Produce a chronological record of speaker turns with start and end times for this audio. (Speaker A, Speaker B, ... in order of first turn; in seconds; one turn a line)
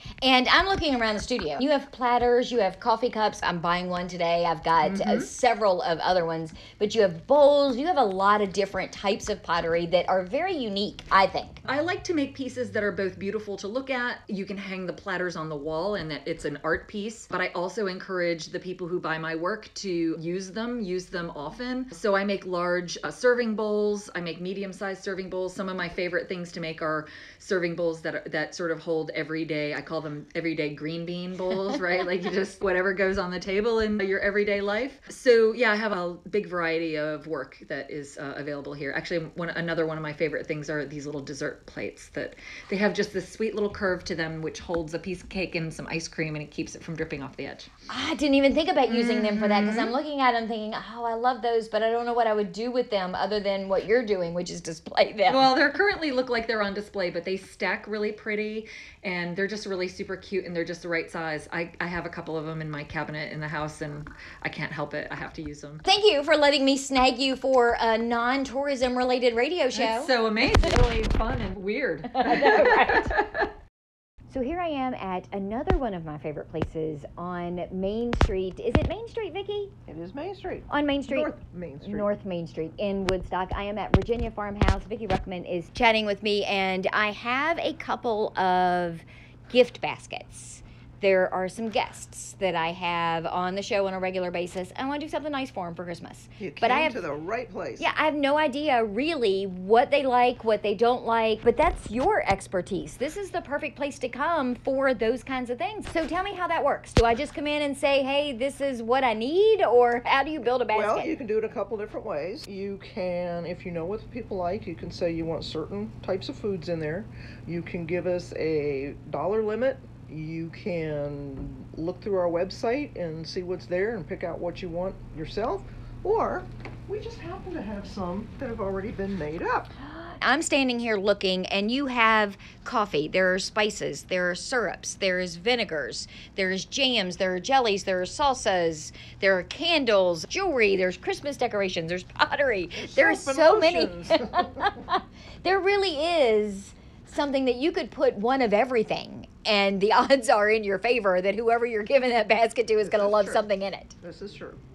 Speaker A: 0.2-11.6
Speaker B: 4.8-5.3
Speaker B: 11.6-47.7
Speaker A: 47.9-55.5
Speaker B: 48.9-49.9
Speaker B: 55.3-65.8
Speaker A: 65.8-70.1
Speaker B: 69.7-73.5
Speaker A: 72.1-73.1
Speaker A: 74.3-79.7
Speaker C: 79.9-82.1
Speaker A: 80.7-97.0
Speaker C: 96.4-97.9
Speaker A: 97.8-111.1
Speaker C: 110.7-129.7
Speaker A: 130.0-153.9
Speaker C: 142.8-144.7
Speaker C: 152.8-153.4
Speaker C: 154.0-154.6